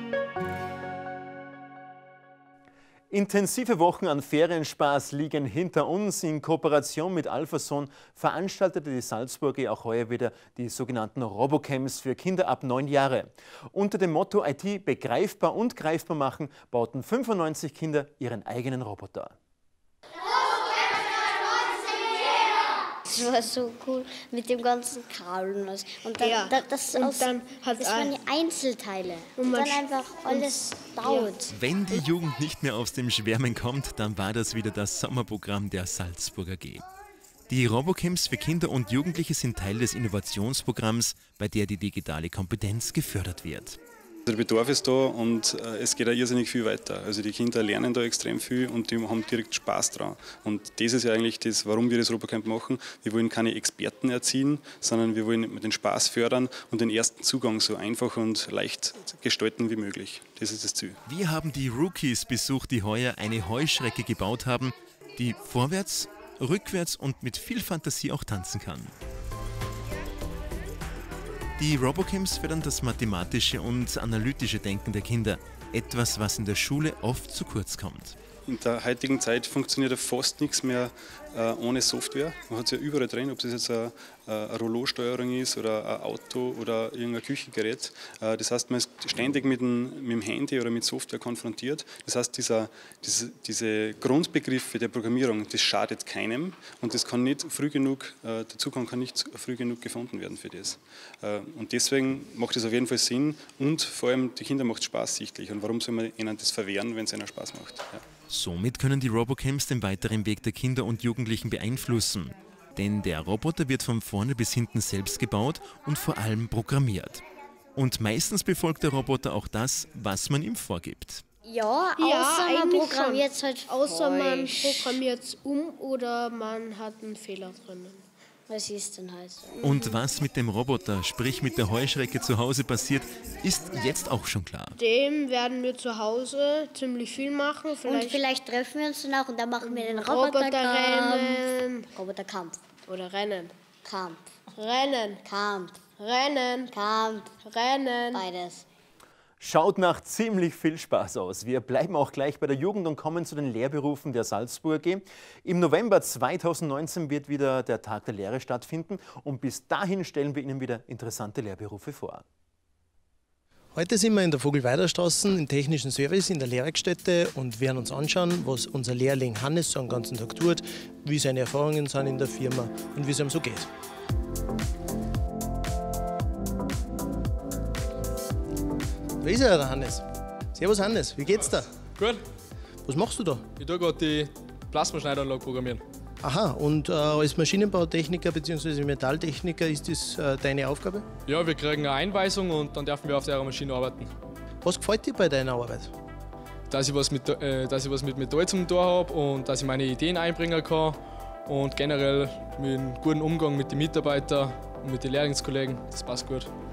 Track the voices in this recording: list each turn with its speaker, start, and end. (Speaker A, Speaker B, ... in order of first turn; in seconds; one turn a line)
Speaker A: 3.1-19.3
Speaker B: 23.1-31.5
Speaker C: 26.2-28.2
Speaker C: 29.4-31.4
Speaker A: 31.5-36.8
Speaker A: 37.5-43.8
Speaker D: 44.3-61.0
Speaker A: 61.1-68.9
Speaker A: 71.6-78.2
Speaker D: 78.5-108.0
Speaker A: 108.3-117.2
Speaker A: 117.8-121.2
Speaker B: 121.4-125.0
Speaker C: 122.0-128.0
Speaker B: 128.5-129.5
Speaker C: 129.6-129.9
Speaker A: 129.6-134.8
Speaker C: 134.8-138.3
Speaker B: 137.8-142.6
Speaker C: 139.6-141.9
Speaker C: 142.8-143.5
Speaker B: 143.8-144.2
Speaker C: 144.5-145.2
Speaker B: 145.2-145.8
Speaker C: 145.9-146.7
Speaker B: 146.7-147.3
Speaker C: 147.4-148.2
Speaker B: 148.1-148.7
Speaker A: 149.4-162.2
Speaker E: 163.7-173.7
Speaker E: 179.2-181.7
Speaker F: 182.0-182.2
Speaker E: 182.8-183.4
Speaker F: 183.5-185.8
Speaker E: 186.2-191.1
Speaker F: 191.2-194.1
Speaker E: 194.6-195.9
Speaker F: 196.7-206.5